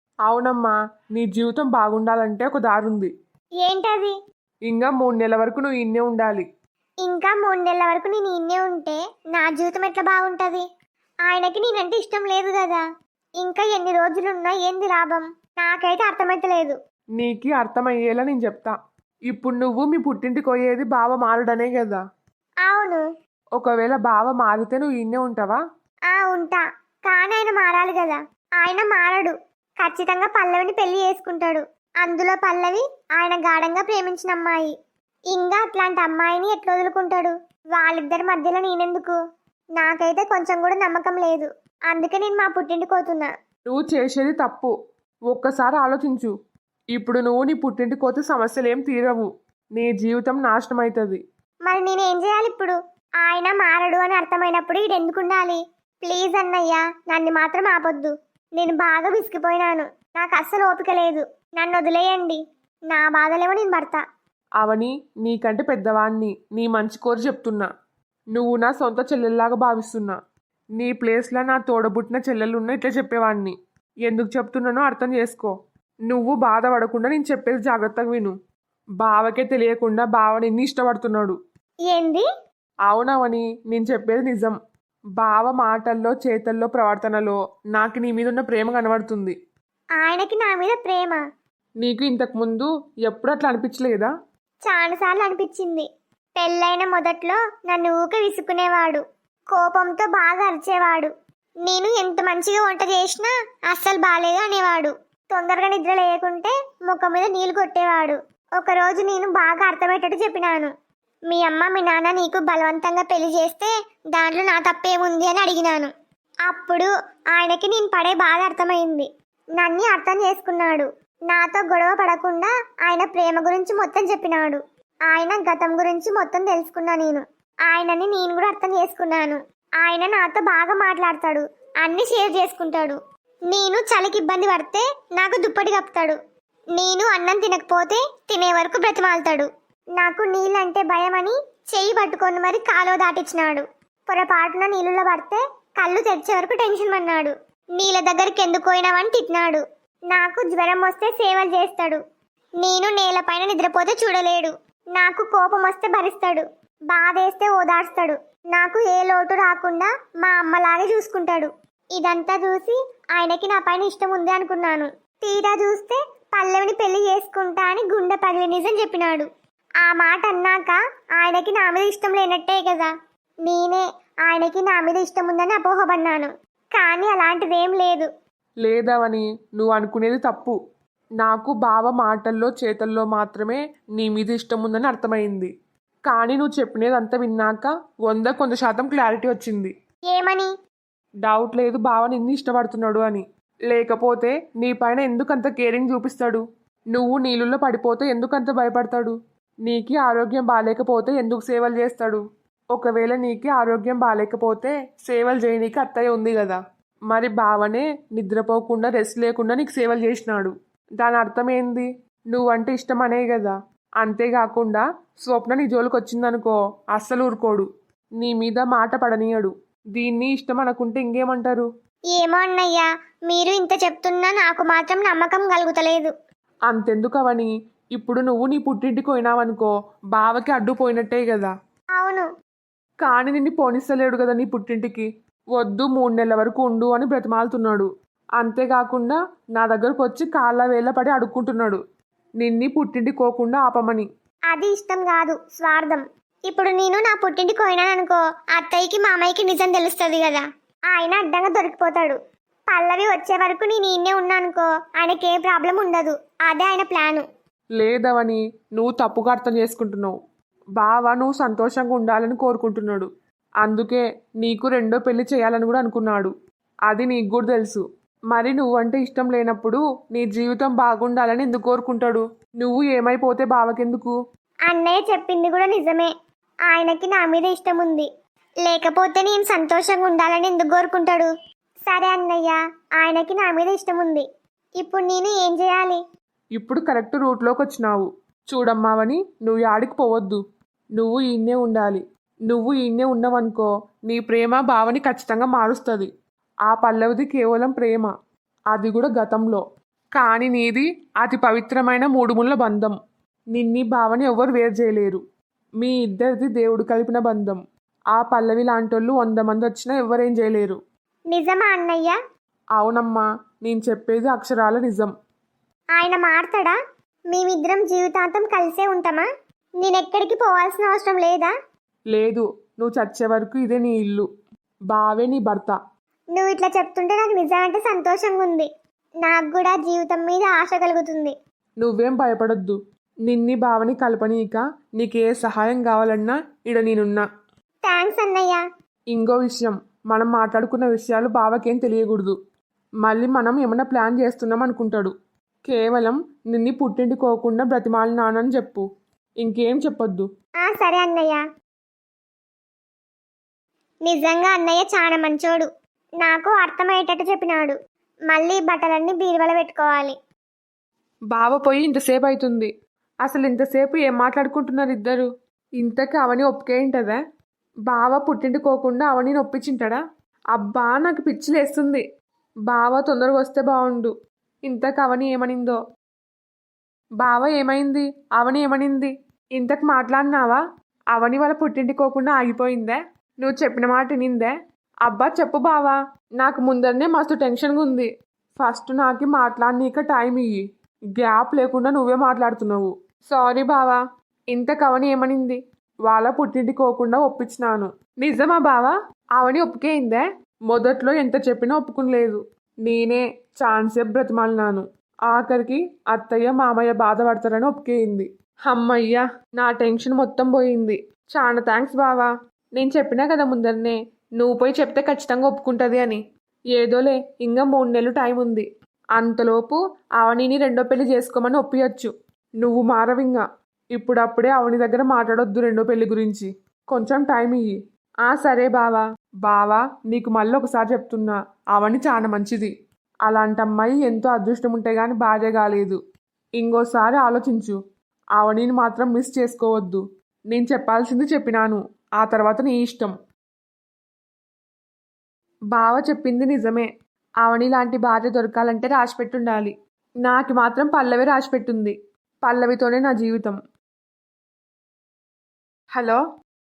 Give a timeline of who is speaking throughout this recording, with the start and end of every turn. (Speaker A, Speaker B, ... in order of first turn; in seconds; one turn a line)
Speaker A: 0.3-3.1
Speaker B: 3.6-4.1
Speaker A: 4.7-6.4
Speaker B: 7.0-10.6
Speaker B: 11.2-12.8
Speaker B: 13.4-16.8
Speaker A: 17.2-18.8
Speaker A: 19.3-22.0
Speaker B: 22.6-23.0
Speaker A: 23.6-25.6
Speaker B: 26.1-34.7
Speaker B: 35.3-39.1
Speaker B: 39.8-43.3
Speaker A: 43.7-44.7
Speaker A: 45.3-46.3
Speaker A: 46.9-51.2
Speaker B: 51.6-62.4
Speaker B: 62.9-64.0
Speaker A: 64.6-67.7
Speaker A: 68.3-70.2
Speaker A: 70.8-75.5
Speaker A: 76.1-78.3
Speaker A: 79.0-81.3
Speaker B: 81.9-82.2
Speaker A: 82.9-84.5
Speaker A: 85.2-89.3
Speaker B: 90.0-91.2
Speaker A: 91.8-94.1
Speaker B: 94.7-101.1
Speaker B: 101.6-110.7
Speaker B: 111.3-115.9
Speaker B: 116.5-133.0
Speaker B: 133.5-136.2
Speaker B: 136.8-152.0
Speaker B: 152.6-169.3
Speaker B: 169.8-172.9
Speaker B: 173.4-178.1
Speaker A: 178.6-180.6
Speaker A: 181.2-185.5
Speaker A: 186.1-189.7
Speaker B: 190.1-190.5
Speaker A: 191.2-217.7
Speaker A: 218.2-221.7
Speaker B: 222.1-226.1
Speaker A: 226.7-231.5
Speaker B: 232.0-232.3
Speaker A: 233.0-241.8
Speaker A: 242.4-244.1
Speaker B: 244.5-252.2
Speaker B: 252.7-257.2
Speaker A: 257.8-260.2
Speaker A: 260.8-263.1
Speaker A: 263.6-266.3
Speaker A: 266.9-274.1
Speaker B: 274.7-276.1
Speaker B: 276.7-278.1
Speaker B: 278.6-281.3
Speaker B: 281.9-284.2
Speaker B: 284.8-286.0
Speaker A: 286.6-290.4
Speaker A: 291.0-296.1
Speaker A: 296.7-298.1
Speaker A: 298.7-299.6
Speaker A: 300.1-302.9
Speaker A: 303.5-305.2
Speaker A: 305.8-307.6
Speaker A: 308.1-310.8
Speaker B: 311.3-312.1
Speaker A: 312.8-315.1
Speaker B: 315.9-316.8
Speaker B: 317.3-319.3
Speaker B: 319.8-321.5
Speaker A: 322.1-324.3
Speaker A: 324.9-325.8
Speaker B: 326.4-328.7
Speaker B: 329.2-331.3
Speaker A: 331.8-337.2
Speaker B: 337.9-338.6
Speaker A: 339.1-342.4
Speaker A: 343.0-345.1
Speaker A: 345.6-348.8
Speaker A: 349.4-350.3
Speaker B: 350.6-351.4
Speaker B: 354.1-355.7
Speaker B: 356.2-357.8
Speaker B: 358.3-360.1
Speaker A: 361.3-362.7
Speaker A: 363.2-365.3
Speaker A: 365.8-367.2
Speaker A: 367.9-370.0
Speaker A: 370.5-372.0
Speaker A: 372.7-374.1
Speaker A: 374.6-375.8
Speaker A: 377.2-380.6
Speaker A: 381.1-384.5
Speaker A: 385.1-390.6
Speaker A: 391.1-394.0
Speaker A: 394.5-416.2
Speaker A: 416.7-423.4
Speaker A: 423.9-432.7
Speaker A: 433.2-436.0
Speaker A: 436.6-437.8
Speaker A: 438.4-443.1
Speaker A: 445.7-446.9
Speaker A: 447.4-453.6
Speaker A: 455.9-456.2